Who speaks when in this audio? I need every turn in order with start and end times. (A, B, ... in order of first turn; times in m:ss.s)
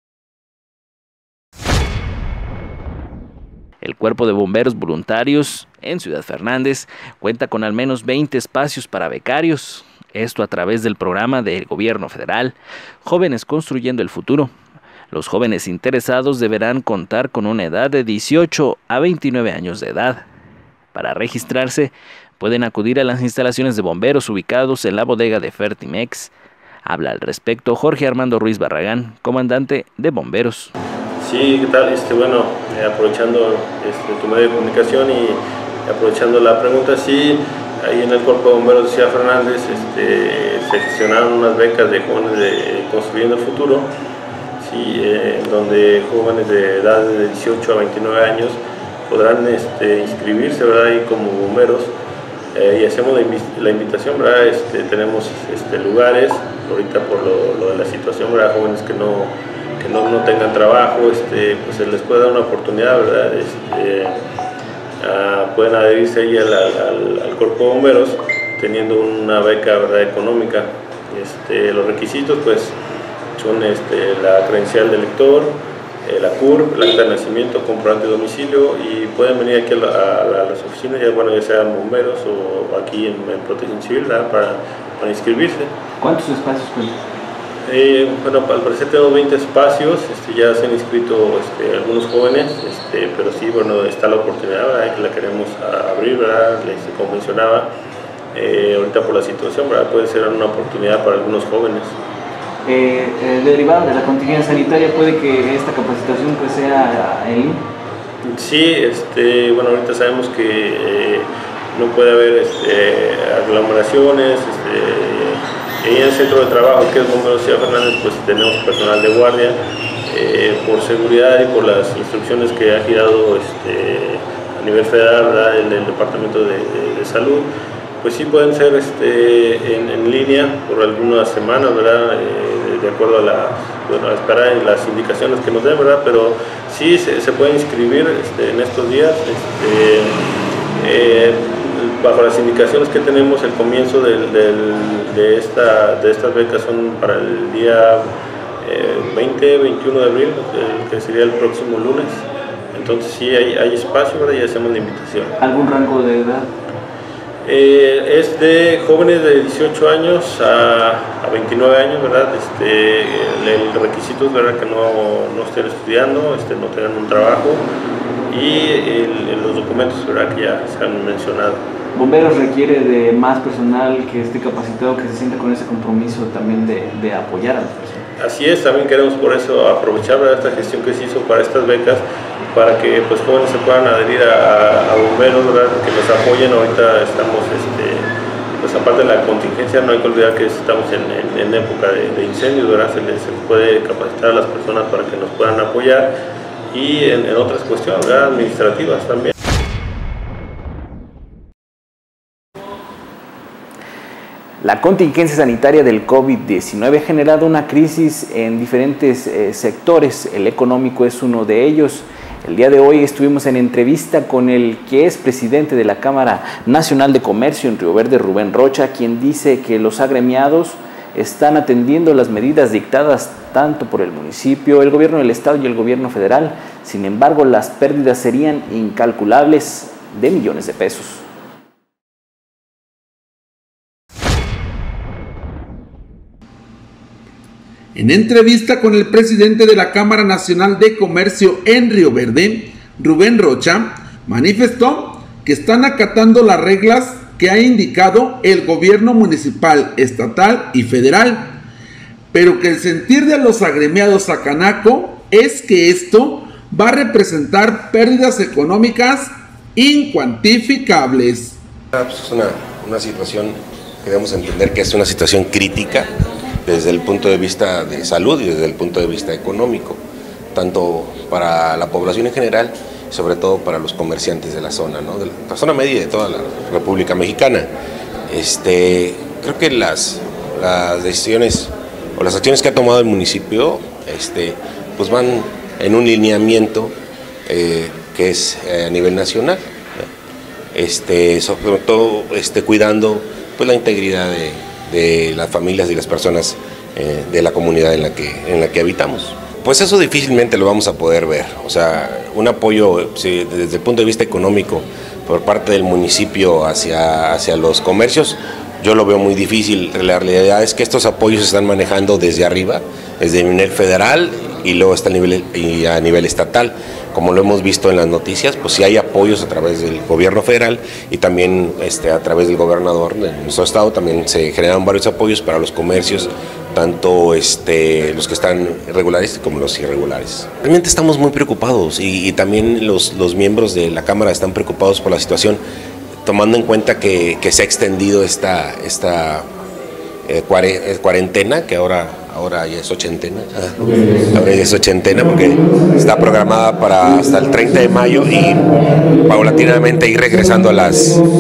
0:03.8-0:14.5 A
0:15.1-0:20.2 A
0:20.9-0:26.3 A
0:26.8-0:30.7 A
0:31.2-0:43.9 B
0:44.6-0:51.9 B
0:52.5-1:04.2 B
1:05.0-1:12.8 B
1:13.4-1:25.7 B
1:26.0-1:27.0 A
1:27.6-1:37.7 B
1:38.3-1:42.0 B
1:42.6-1:47.6 A
1:48.2-2:07.5 B
2:08.0-2:20.2 B
2:20.8-2:28.1 B
2:28.6-2:35.4 B
2:35.4-2:36.5 A
2:37.4-2:47.6 B
2:48.3-2:51.6 B
2:51.9-2:58.0 A
2:58.2-3:16.2 B
3:16.7-3:19.3 B
3:24.6-3:51.2 A
3:57.9-4:11.6 C
4:12.3-4:21.6 C
4:21.9-4:26.1 D
4:26.6-4:30.0 D
4:30.5-4:37.7 D
4:38.3-4:46.9 D
4:47.5-4:49.6 D
4:50.7-5:35.6 D
5:36.2-5:39.5 D
5:40.3-5:51.2 D